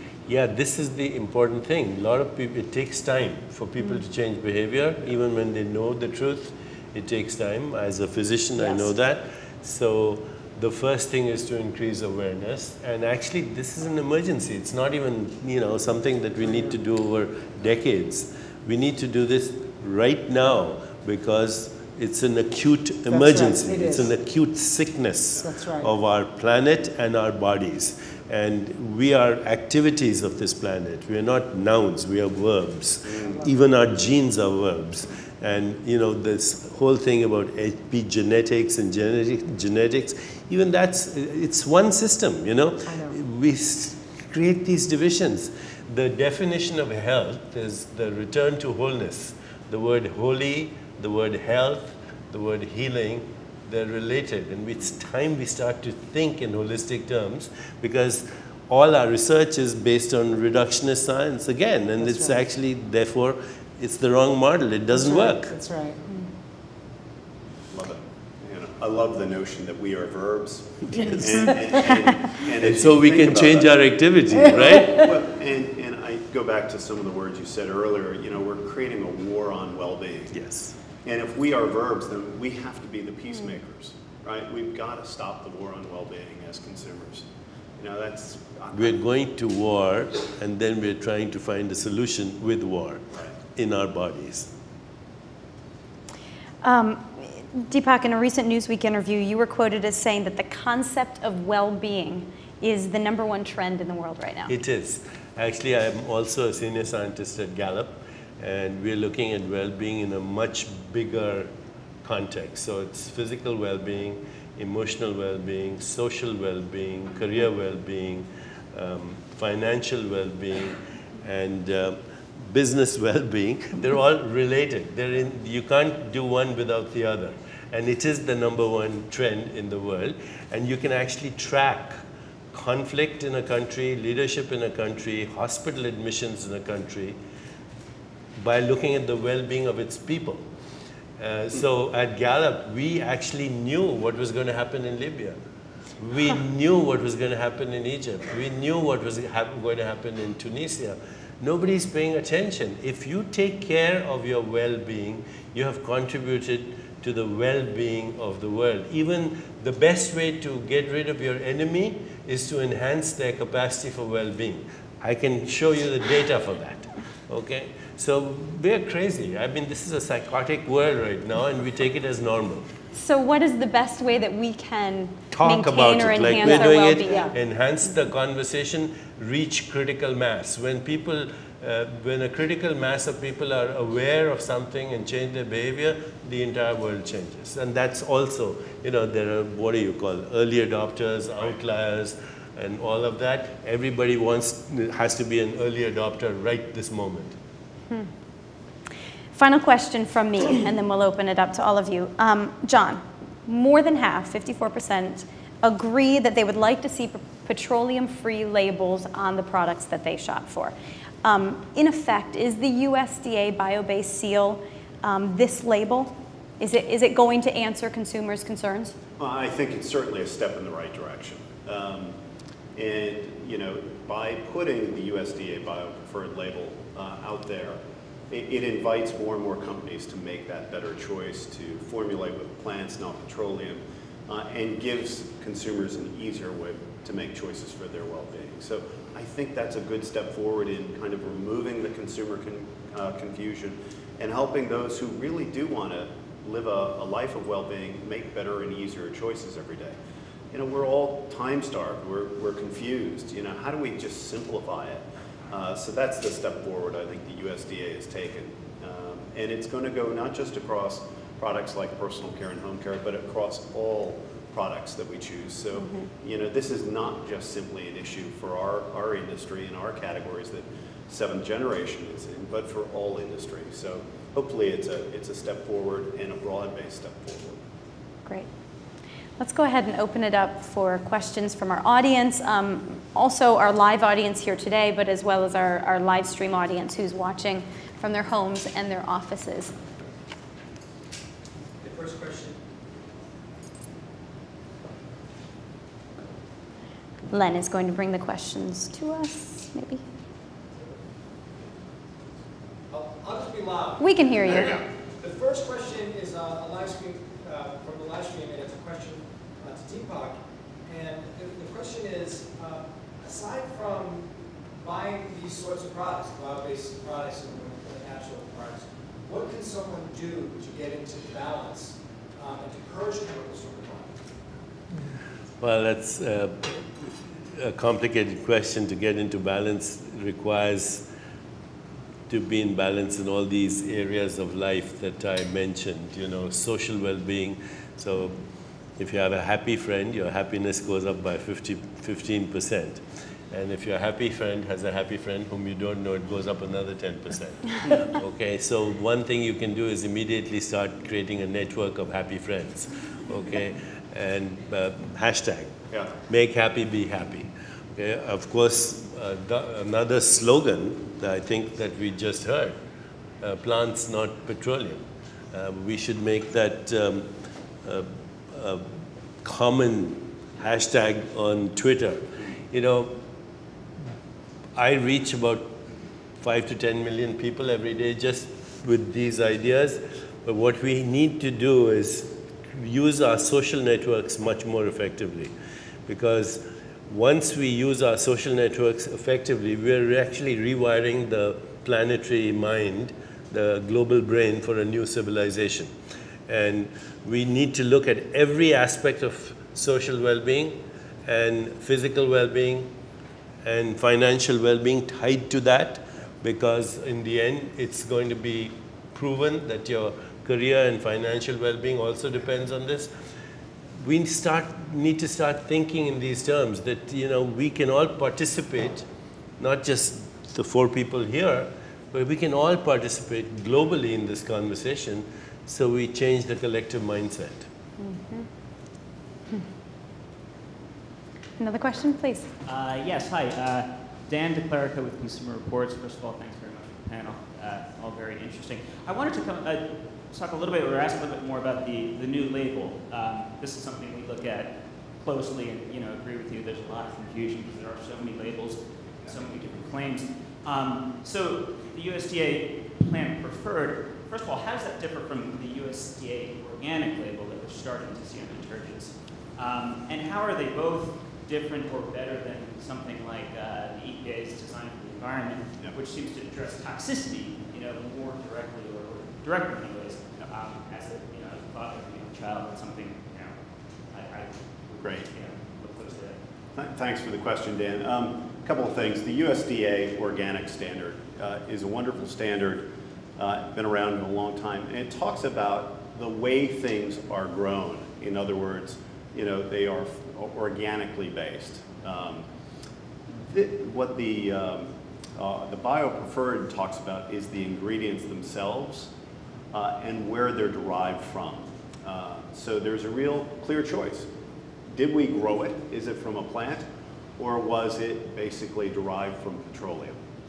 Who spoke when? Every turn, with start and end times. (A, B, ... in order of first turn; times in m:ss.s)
0:00.2-1:05.5 A
0:08.6-0:08.9 B
0:16.4-0:16.7 B
0:23.1-0:24.1 B
0:25.4-0:25.9 B
0:42.9-0:43.2 B
1:02.0-1:02.4 B
1:04.9-1:06.0 B
1:07.7-1:20.4 C
1:10.9-1:11.5 A
1:12.6-1:15.1 A
1:14.4-1:14.8 B
1:20.3-1:20.7 A
1:21.0-1:27.3 C
1:27.8-1:29.0 C
1:28.7-1:34.5 A
1:36.6-1:44.5 D
1:44.5-1:51.5 A
1:52.0-2:12.0 A
2:12.5-2:17.2 A
2:18.4-2:20.4 A
2:21.2-2:25.4 A
2:26.0-2:52.7 A
2:52.9-2:57.3 D
2:55.3-3:17.4 A
2:57.1-2:57.3 B
3:19.3-3:39.0 D
3:39.2-3:42.2 C
3:42.7-4:10.0 C
4:10.5-4:37.6 C
4:25.8-4:26.1 D
4:39.4-4:49.7 D
4:51.8-4:52.6 E
4:57.3-5:00.0 D
5:02.9-5:04.0 E
5:04.0-5:04.8 D
5:04.6-5:14.3 E
5:14.8-5:24.3 E
5:25.6-5:31.0 A
5:32.3-5:38.4 A
5:39.0-5:55.7 A
5:56.3-6:02.8 A
6:03.4-6:07.3 A
6:07.8-6:08.9 A
6:09.4-6:13.2 A
6:14.7-6:15.8 A
6:16.4-6:25.5 A
6:26.1-6:35.9 A
6:36.5-6:42.9 A
6:43.6-6:53.1 A
6:54.0-6:59.0 A
6:59.6-7:07.7 A
7:08.0-7:08.5 D
7:11.6-7:12.5 D
7:12.6-7:53.6 F
7:54.1-7:56.4 F
7:56.7-8:12.4 C
8:13.4-8:19.1 C
8:19.7-8:24.3 C
8:24.9-8:26.9 C
8:27.4-8:30.2 C